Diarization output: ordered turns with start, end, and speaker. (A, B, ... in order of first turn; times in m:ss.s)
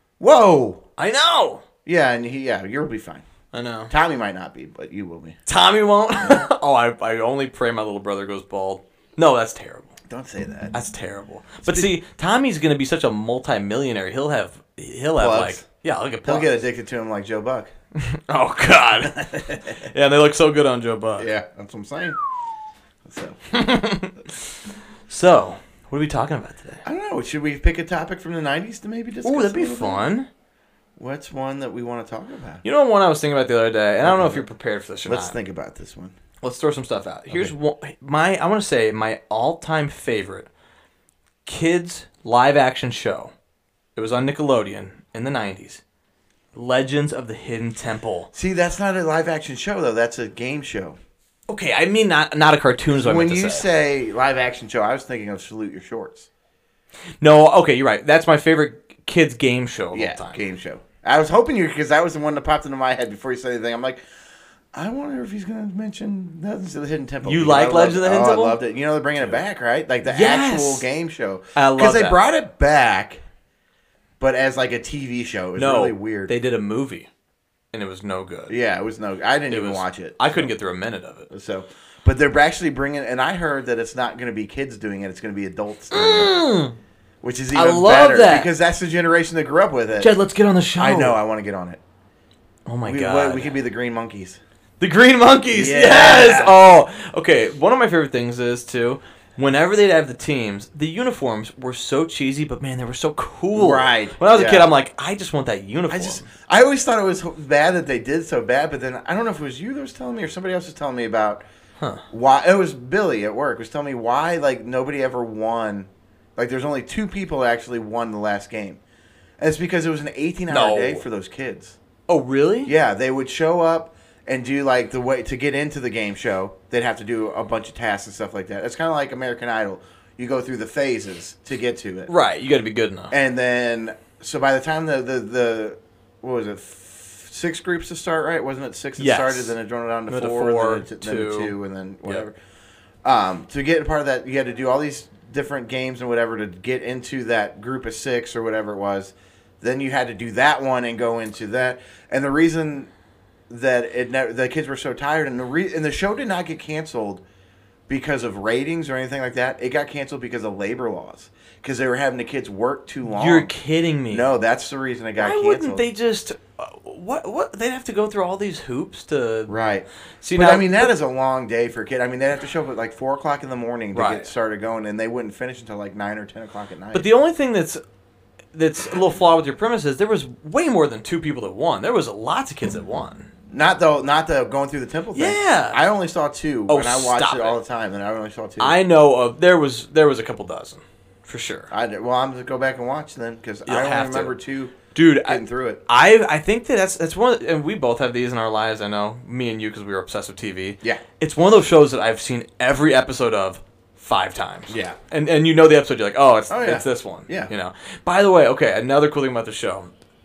0:00.2-0:00.8 A
0:01.0-0:01.6 B
0:01.9-0:03.2 A
0:03.5-0:03.9 B
0:03.9-0:05.4 A
0:05.5-0:09.9 B
0:06.2-0:06.5 A
0:10.1-0:10.8 A
0:10.7-0:16.6 B
0:11.6-0:11.9 A
0:15.2-0:15.6 A
0:16.2-0:17.7 A
0:18.0-0:21.3 B
0:19.0-0:19.8 A
0:21.2-0:22.2 A
0:23.0-0:23.4 A
0:23.5-0:24.4 B
0:25.1-0:26.8 B
0:26.8-0:30.1 A
0:29.2-0:30.3 B
0:31.0-0:32.6 A
0:32.6-0:35.4 B
0:34.0-0:34.5 A
0:35.1-0:36.2 A
0:36.4-0:40.5 B
0:41.4-0:43.3 B
0:44.0-0:45.8 B
0:46.6-0:48.3 B
0:48.3-0:51.0 A
0:51.5-0:53.7 B
0:52.9-0:56.3 A
0:57.2-1:00.4 B
0:59.9-1:04.0 A
1:04.7-1:13.2 A
1:07.2-1:08.6 B
1:10.1-1:10.9 B
1:11.6-1:12.2 B
1:14.2-1:16.3 A
1:15.6-1:17.1 B
1:17.7-1:18.6 B
1:18.5-1:20.5 A
1:19.5-1:21.3 B
1:21.3-1:26.4 A
1:25.9-1:26.8 B
1:27.2-1:30.1 A
1:27.5-1:28.5 B
1:30.0-1:31.2 B
1:30.8-1:31.8 A
1:32.7-1:33.6 B
1:32.8-1:34.4 A
1:34.8-1:46.3 B
1:35.5-1:36.6 A
1:43.5-1:44.7 A
1:45.9-1:51.4 A
1:52.1-1:58.8 A
1:59.4-2:01.8 A
2:00.5-2:01.0 B
2:02.1-2:02.7 B
2:02.7-2:12.1 A
2:12.1-2:13.1 B
2:13.1-2:22.4 A
2:19.0-2:19.5 B
2:20.1-2:21.6 B
2:23.0-2:32.9 A
2:33.5-2:37.2 A
2:37.9-2:43.5 A
2:43.1-2:44.3 B
2:44.1-2:45.9 A
2:45.2-2:49.5 B
2:49.5-2:57.1 A
2:50.2-2:50.9 B
2:53.9-2:54.3 B
2:56.9-2:57.8 B
2:58.5-3:03.3 B
3:03.5-3:08.8 A
3:05.1-3:05.8 B
3:06.7-3:07.6 B
3:08.6-3:11.7 B
3:11.7-3:15.8 A
3:13.7-3:14.4 B
3:14.9-3:29.9 B
3:24.7-3:25.0 A
3:26.5-3:27.5 A